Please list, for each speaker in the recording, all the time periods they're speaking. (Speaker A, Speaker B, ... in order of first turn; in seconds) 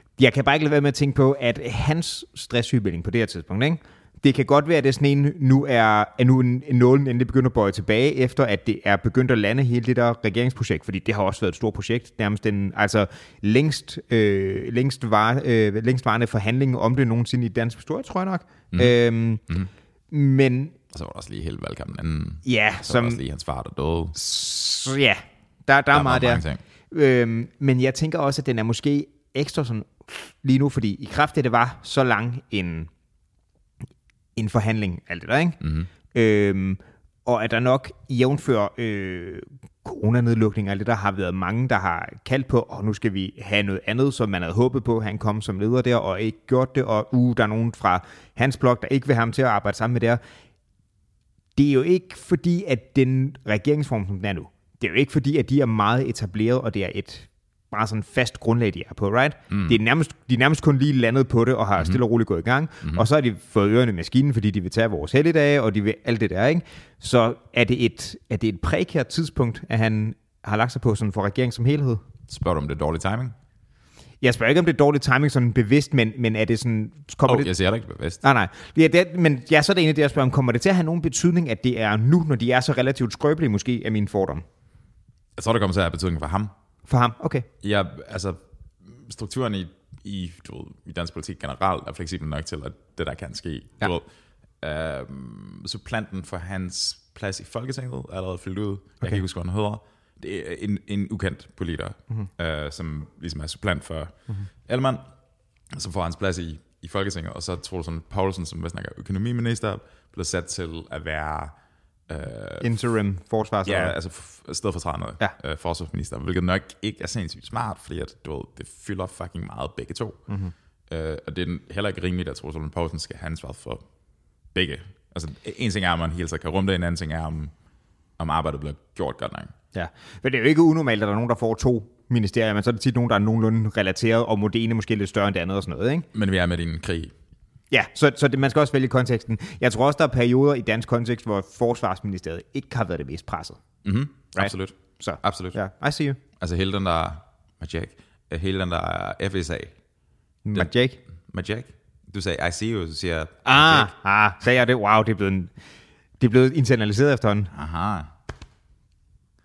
Speaker A: 0.2-19.4, 20.1-20.8, 22.4-23.2, 24.1-32.9, 34.4-35.6, 36.1-50.2, 51.6-72.0, 74.2-77.5, 78.2-84.4, 86.9-87.5, 112.6-114.0, 129.7-136.1, 137.7-143.6, 144.4-146.2, 150.4-151.0, 153.4-155.5, 156.2-157.5
Speaker B: 20.9-24.2, 25.9-26.6, 35.6-35.9, 59.5-59.8, 72.3-73.3, 77.3-78.2, 85.4-86.5, 87.6-94.1, 94.6-105.0, 105.7-111.5, 112.1-112.7, 113.7-120.2, 120.9-123.8, 124.5-127.5, 128.2-129.5, 136.1-137.1, 143.8-145.6, 146.4-149.7, 151.3-153.9, 157.5-158.1